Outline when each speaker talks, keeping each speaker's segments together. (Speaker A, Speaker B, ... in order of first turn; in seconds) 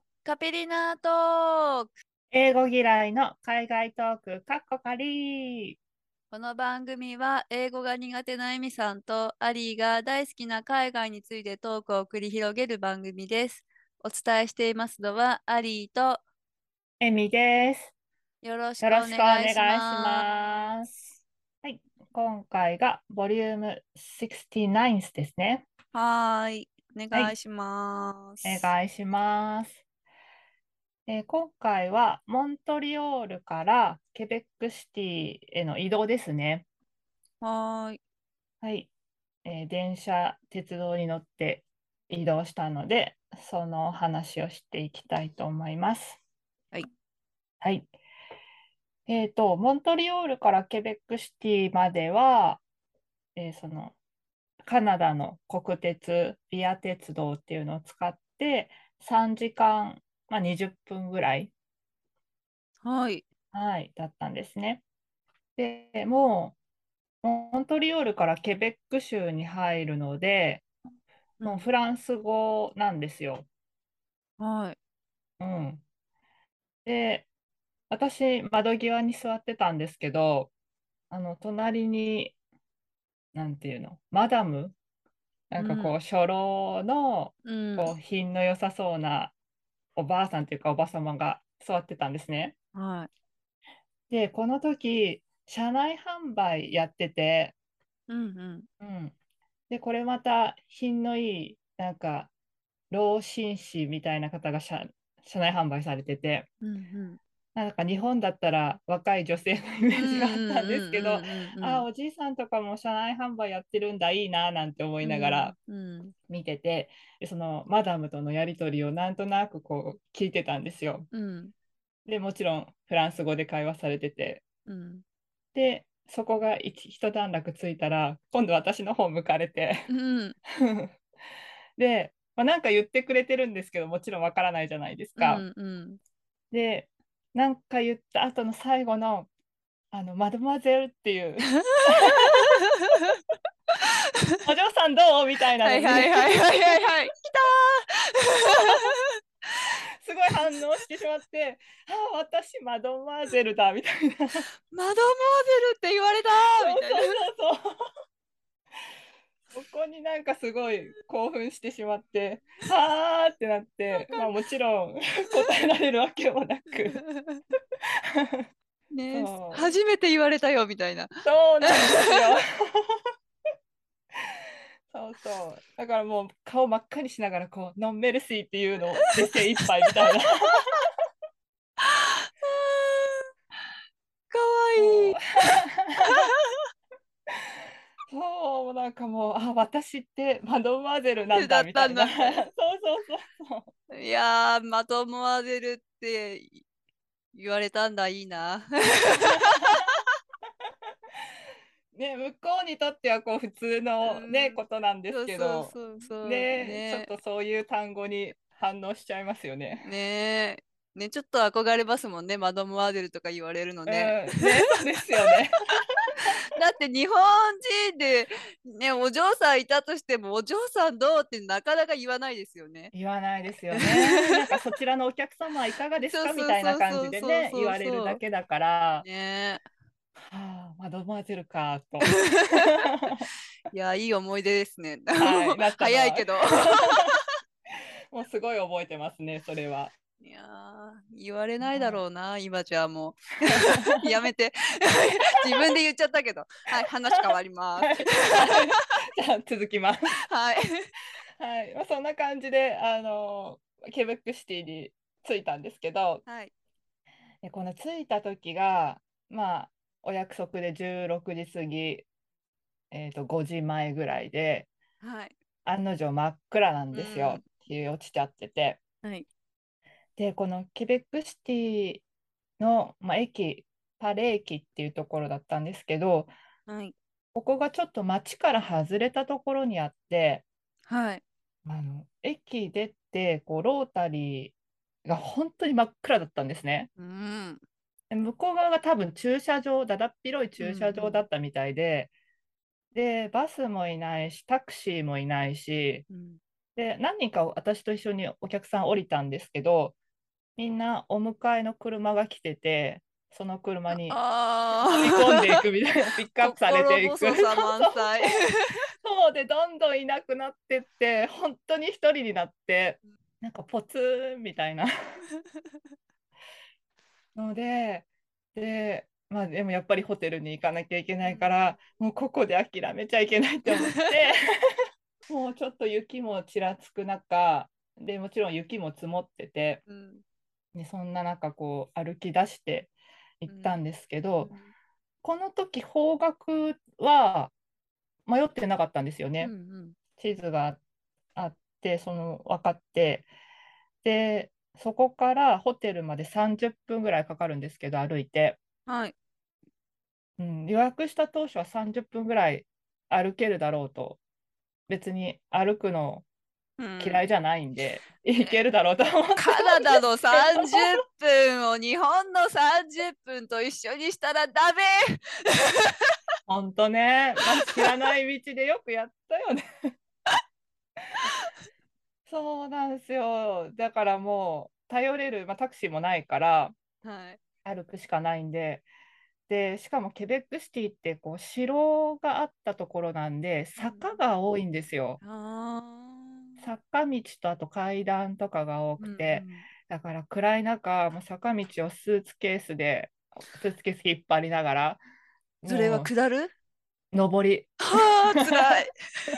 Speaker A: 0.2-1.9, 6.3-16.2, 18.4-20.7, 25.9-28.7, 37.4-38.0, 62.8-63.2, 71.4-71.7, 74.4-74.8, 85.5-86.0, 87.4-87.9, 92.7-93.1, 98.1-98.7, 106.6-107.2, 110.0-111.8, 115.0-116.1, 121.1-121.5, 124.7-125.0, 129.9-130.3, 135.2-136.0, 142.2-142.5, 145.6-148.9, 154.7-157.1, 166.9-167.4, 168.9-172.2, 181.8-183.2, 184.3-185.4, 191.3-192.4, 193.9-196.6, 197.3-199.7, 204.0-207.1, 209.8-214.4, 216.5-222.9, 223.8-224.3, 226.1-228.2, 229.0-229.6, 232.0-232.6, 233.7-237.2, 240.2-248.5, 250.3-250.9, 256.2-256.5, 265.0-265.3, 266.9-267.4, 276.7-276.9, 280.9-281.2, 287.0-287.6, 290.6-291.2, 296.1-296.4, 303.9-305.6, 306.4-308.8, 321.2-321.7, 323.7-324.1, 329.9-330.2, 333.5-333.8, 334.4-334.7, 339.4-340.0, 348.9-349.1, 356.8-357.2, 359.4-365.0, 377.0-377.4, 383.8-384.2, 385.2-386.7, 389.0-389.6, 395.6-396.5, 397.9-398.9
Speaker B: 2.3-5.8, 17.0-17.9, 18.8-20.9, 21.6-25.6, 28.4-29.8, 31.1-36.6, 38.6-38.9, 39.4-46.2, 47.6-47.9, 49.1-52.6, 53.4-54.0, 54.6-61.5, 63.5-64.8, 65.5-66.5, 67.2-70.6, 71.4-73.5, 75.4-75.8, 76.8-77.3, 77.9-80.5, 81.1-82.3, 83.3-84.7, 85.5-89.3, 89.9-92.5, 94.1-97.5, 98.8-99.1, 99.7-102.3, 102.9-106.5, 107.5-115.5, 116.3-121.1, 122.0-124.4, 125.5-129.8, 130.6-130.9, 131.8-135.4, 136.5-139.3, 139.9-142.5, 144.4-146.9, 150.0-154.4, 156.4-157.8, 159.5-167.0, 168.2-168.4, 169.1-169.7, 171.2-173.0, 174.9-180.8, 184.8-186.3, 188.1-193.7, 201.9-209.9, 213.8-215.6, 222.9-229.0, 230.2-233.2, 235.2-237.1, 238.1-239.9, 241.6-242.0, 247.8-250.1, 251.4-256.2, 257.4-262.1, 262.9-264.7, 265.6-268.8, 270.2-272.0, 272.6-276.3, 277.3-280.4, 281.6-286.9, 288.1-292.1, 292.9-296.0, 296.8-299.9, 300.6-304.2, 304.7-308.3, 309.0-314.9, 317.3-324.7, 325.3-329.8, 330.7-334.5, 335.2-337.5, 338.2-339.5, 340.2-340.8, 341.3-343.3, 344.0-348.6, 350.4-354.2, 354.9-356.2, 357.0-360.8, 366.5-369.6, 372.3-376.8, 377.6-378.9, 379.5-385.2, 386.6-395.0, 395.6-396.1, 397.1-398.9